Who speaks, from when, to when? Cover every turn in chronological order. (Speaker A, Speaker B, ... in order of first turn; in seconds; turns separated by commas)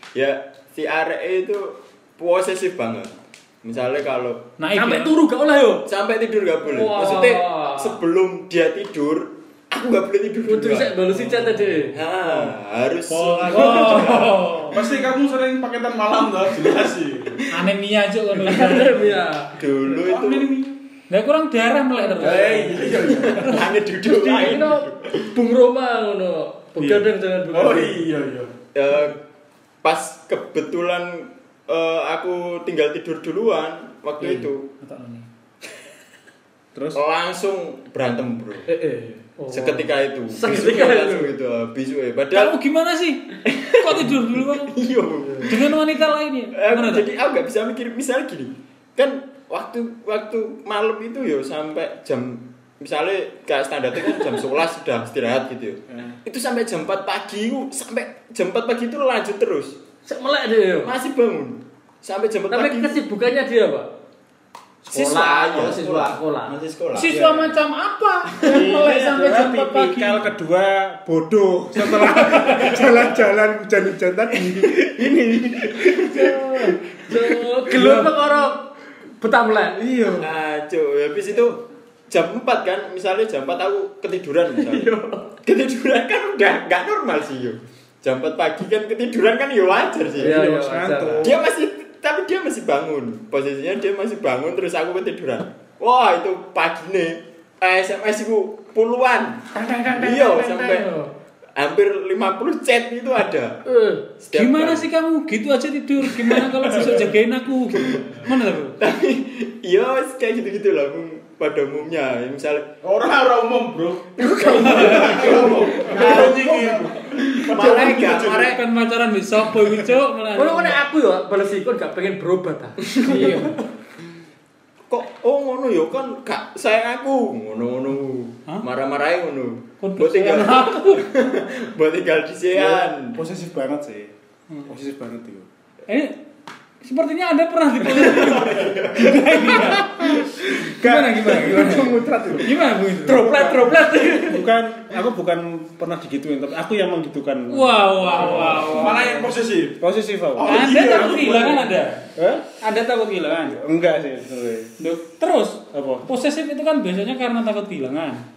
Speaker A: 0.1-4.4, Speaker B: 4.6-5.1, Speaker C: 4.8-5.9, Speaker A: 5.9-11.3, Speaker C: 6.7-8.0, Speaker C: 10.5-12.0, Speaker A: 11.9-14.7, Speaker B: 13.1-14.8, Speaker D: 14.7-17.5, Speaker B: 17.5-19.2, Speaker C: 18.5-19.5, Speaker A: 19.6-20.5, Speaker D: 19.9-20.8, Speaker B: 21.1-22.8, Speaker D: 22.2-23.7, Speaker C: 22.3-22.6, Speaker A: 22.5-25.3, Speaker C: 24.0-28.0, Speaker D: 26.8-28.5, Speaker A: 28.7-29.2, Speaker A: 29.8-34.6, Speaker B: 34.2-35.3, Speaker A: 36.9-38.7, Speaker D: 38.7-39.3, Speaker C: 39.4-41.3, Speaker A: 39.5-42.6, Speaker B: 42.3-44.7, Speaker A: 43.4-45.8, Speaker B: 45.5-47.1, Speaker A: 46.5-59.8, Speaker C: 60.1-61.0, Speaker A: 60.8-63.0, Speaker C: 62.5-63.9, Speaker C: 64.8-66.6, Speaker A: 64.9-67.2, Speaker B: 67.0-70.2, Speaker E: 67.1-67.5, Speaker E: 68.4-77.0, Speaker B: 72.2-72.8, Speaker A: 75.8-76.3, Speaker C: 77.0-78.7, Speaker E: 77.7-78.1, Speaker C: 79.2-79.8, Speaker E: 79.8-80.3, Speaker A: 80.1-84.9, Speaker C: 84.6-85.2, Speaker A: 85.4-90.4, Speaker C: 90.2-91.3, Speaker E: 90.2-91.4, Speaker A: 91.2-100.9, Speaker C: 99.5-101.1, Speaker A: 101.6-103.6, Speaker C: 103.7-104.0, Speaker A: 104.2-104.9, Speaker B: 104.3-108.8, Speaker A: 106.1-107.0, Speaker A: 108.8-112.7, Speaker D: 112.8-118.5, Speaker E: 114.2-117.0, Speaker A: 114.4-116.6, Speaker A: 117.1-118.6, Speaker B: 117.5-120.8, Speaker E: 117.6-118.1, Speaker C: 120.3-123.5, Speaker B: 123.0-123.6, Speaker A: 124.9-133.2, Speaker B: 129.8-131.1, Speaker E: 132.5-134.1, Speaker E: 134.7-135.5, Speaker B: 135.9-136.2, Speaker B: 136.8-140.2, Speaker A: 137.9-139.1, Speaker E: 138.3-142.6, Speaker B: 140.8-143.5, Speaker C: 143.1-144.5, Speaker E: 143.1-148.8, Speaker B: 147.5-149.2, Speaker D: 148.3-149.8, Speaker E: 149.8-151.0, Speaker D: 150.4-151.7, Speaker B: 150.4-152.0, Speaker E: 152.2-152.5, Speaker B: 152.6-153.6, Speaker E: 153.5-154.7, Speaker B: 154.8-158.2, Speaker E: 155.7-156.1